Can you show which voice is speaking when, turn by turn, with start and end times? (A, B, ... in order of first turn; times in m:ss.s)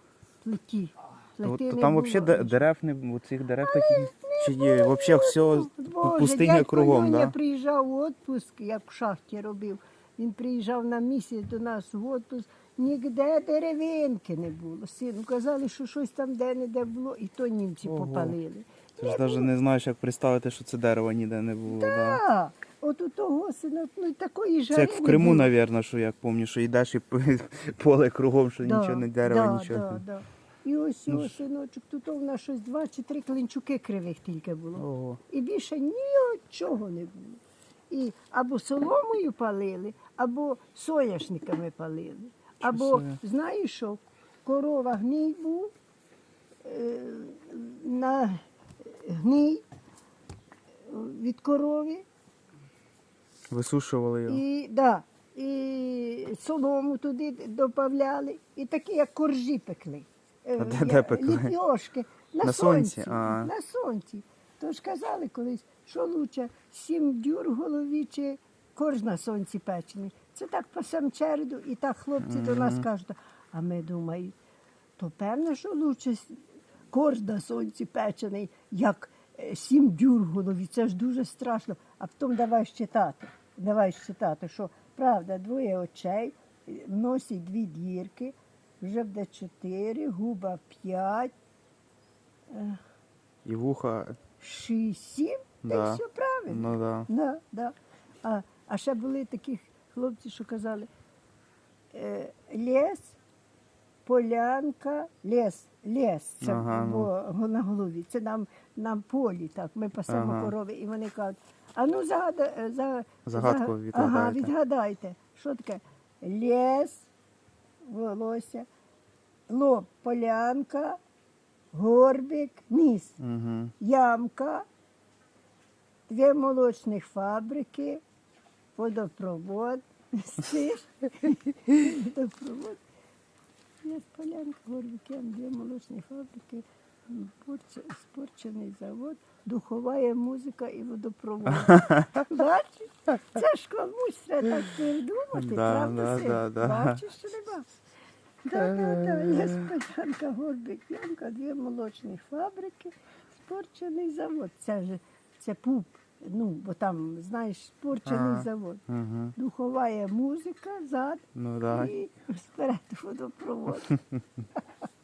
0:00.4-0:02.7 A
0:01.4-0:07.4 B
0:03.6-0:19.5 A
0:17.8-0:18.4 B
0:19.0-0:22.2 B
0:21.7-0:25.5 A
0:24.7-0:30.0 B
0:28.6-0:45.7 A
0:31.1-0:31.4 B
0:34.8-0:35.2 B
0:42.6-0:43.2 B
0:46.6-0:49.6 A
0:50.9-0:52.1 A
0:53.5-0:54.4 B
0:54.3-1:14.4 A
1:00.6-1:01.5 B
1:02.4-1:03.5 B
1:12.2-1:12.9 B
1:15.0-1:31.3 A
1:32.5-1:32.8 A
1:33.4-1:34.2 B
1:34.4-1:40.9 A
1:35.6-1:37.1 B
1:41.9-1:43.2 A
1:44.0-1:57.1 A
1:46.4-1:47.1 B
1:50.1-1:50.5 B
1:53.3-1:54.5 B
1:57.8-1:58.7 A
1:59.5-2:01.0 A
2:01.7-2:03.2 A
2:03.2-2:03.7 B
2:03.8-2:04.7 A
2:06.1-2:08.0 A
2:08.8-2:12.8 A
2:13.8-2:27.7 A
2:25.3-2:27.0 B
2:28.4-2:38.8 A
2:28.6-2:29.0 B
2:38.1-2:39.3 B
2:39.4-2:44.0 A
2:41.4-2:41.9 B